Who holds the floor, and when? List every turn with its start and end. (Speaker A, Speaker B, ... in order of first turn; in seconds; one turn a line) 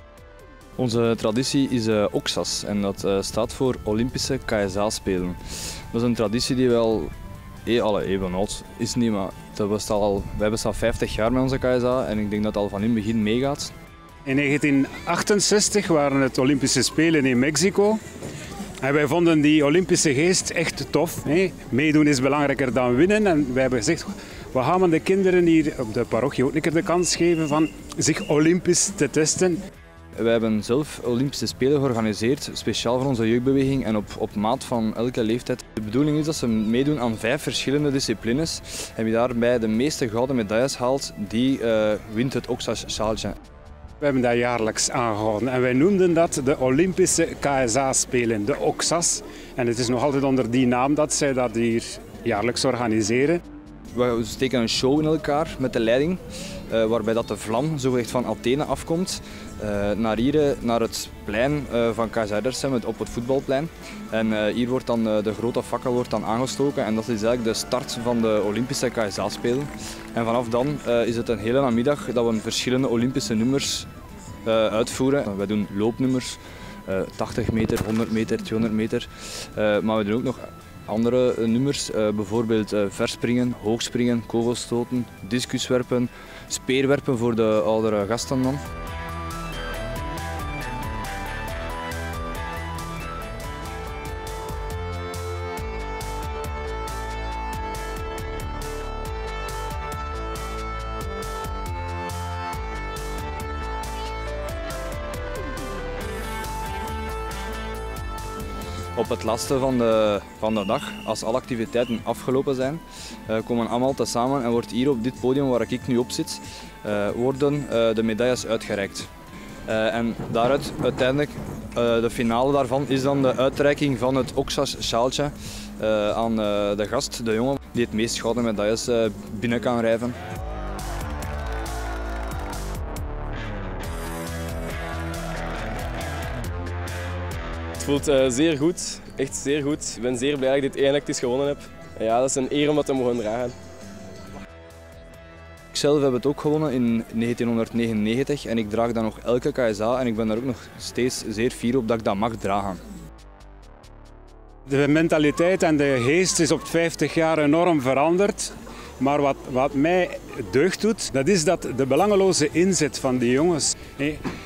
Speaker A: 0.8-5.4
Speaker A: 5.9-7.1
Speaker A: 7.7-13.7
Speaker B: 14.3-18.0
Speaker B: 18.8-29.6
Speaker A: 30.2-43.4
Speaker B: 44.0-53.4
Speaker A: 53.9-73.9
Speaker A: 74.4-88.6
Speaker A: 109.0-119.1
Speaker A: 119.7-130.2
Speaker C: 137.8-143.5
Speaker A: 145.7-152.8
Speaker B: 154.7-164.2